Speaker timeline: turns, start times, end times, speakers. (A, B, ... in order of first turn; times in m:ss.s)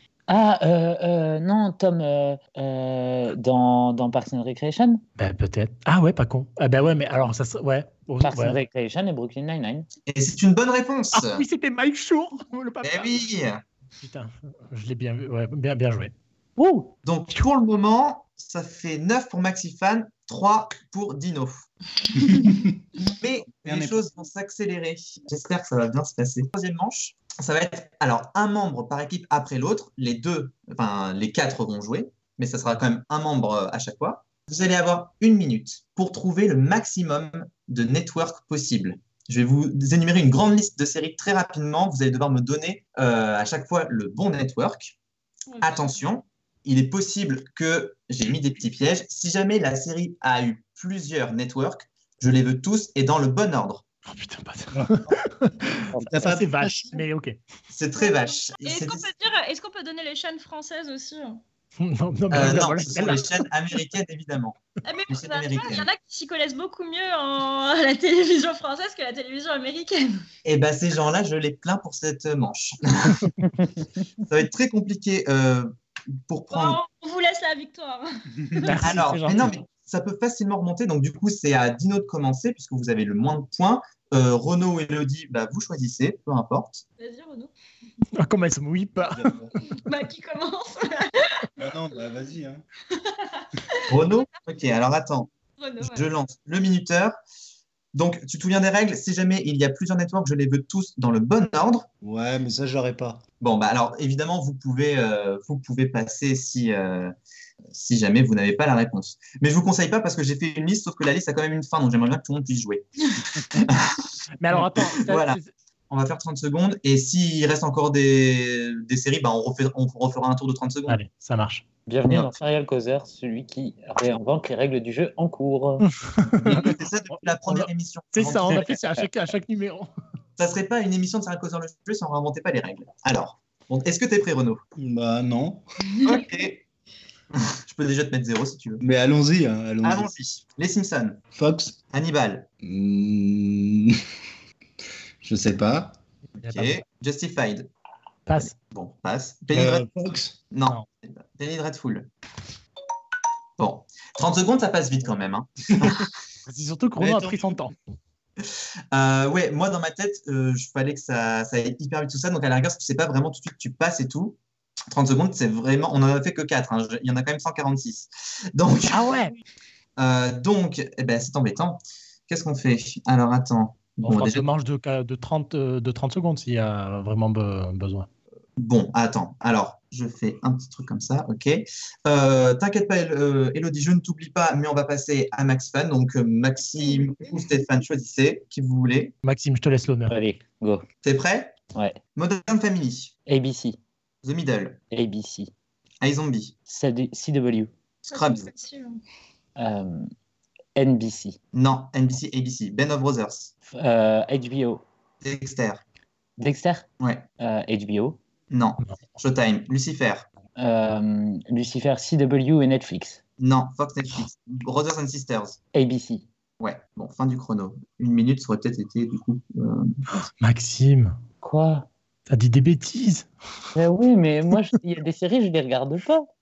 0:00.3-0:05.0 A
0:05.2-0:08.6 B
0:08.2-0:09.9 A
0:10.1-0:11.4 C
0:11.1-0:13.1 B
0:12.8-0:13.6 C
0:14.0-0:16.8 B
0:17.0-0:21.7 C
0:22.2-0:22.7 D
0:23.1-0:45.0 C
0:23.5-0:24.0 D
0:45.5-0:46.0 E
0:45.6-0:53.8 C
0:54.1-0:57.4 B
0:54.7-0:55.1 D
0:56.0-0:57.0 D
0:57.7-0:59.1 C
0:58.0-1:01.4 E
1:01.8-1:03.4 B
1:02.3-1:05.9 C
1:04.8-1:10.2 E
1:10.4-1:13.3 C
1:14.3-1:15.8 C
1:16.3-1:16.8 C
1:16.5-1:18.8 E
1:18.5-1:18.9 D
1:18.6-1:19.5 B
1:18.8-1:26.8 C
1:27.0-1:27.5 E
1:28.2-1:29.4 B
1:29.1-1:29.6 D
1:29.7-1:31.5 E
1:31.6-1:32.6 D
1:32.9-1:34.2 E
1:33.9-1:35.3 C
1:35.6-1:36.1 E
1:35.8-1:37.2 C
1:37.9-1:41.9 C
1:42.0-1:43.2 D
1:43.4-1:47.1 C
1:47.7-1:52.9 C
1:53.5-1:55.4 C
1:54.4-1:55.5 B
1:55.9-2:01.0 C
2:00.9-2:01.7 B
2:01.9-2:05.8 A
2:02.1-2:02.4 C
2:05.8-2:06.8 B
2:06.4-2:08.8 C
2:07.5-2:09.9 B
2:10.4-2:14.6 C
2:14.8-2:15.6 D
2:15.9-2:16.2 E
2:16.0-2:16.6 C
2:17.4-2:18.8 C
2:18.8-2:20.1 D
2:19.8-2:21.2 C
2:21.3-2:21.8 D
2:21.9-2:22.5 C
2:22.6-2:24.0 D
2:25.2-2:26.0 D
2:26.4-2:27.7 C
2:26.4-2:26.8 B
2:28.3-2:28.6 B
2:28.4-2:29.9 C
2:29.5-2:30.4 D
2:30.5-2:32.1 C
2:33.6-2:36.1 C
2:36.5-2:37.8 B
2:37.0-2:37.6 D
2:38.4-2:44.4 C
2:44.9-2:49.1 C
2:48.9-2:49.4 B
2:50.0-2:54.4 C
2:54.0-2:58.1 B
2:58.6-3:09.1 C
3:09.2-3:10.2 B
3:10.1-3:10.9 A
3:11.0-3:11.6 C
3:12.2-3:13.1 C
3:13.3-3:13.8 A
3:14.2-3:14.8 C
3:14.9-3:15.5 A
3:16.0-3:16.6 C
3:16.7-3:17.7 A
3:18.1-3:18.5 C
3:18.1-3:19.0 E
3:19.6-3:20.1 A
3:20.8-3:21.4 A
3:21.5-3:23.5 C
3:23.7-3:24.8 A
3:25.2-3:25.8 C
3:26.4-3:26.9 A
3:27.0-3:27.3 C
3:27.4-3:28.2 A
3:28.5-3:30.3 C
3:30.6-3:33.2 A
3:33.4-3:35.6 C
3:35.7-3:36.3 A
3:36.6-3:40.0 C
3:40.2-3:41.2 B
3:41.4-3:41.9 A
3:42.3-3:43.3 B
3:43.8-3:46.3 A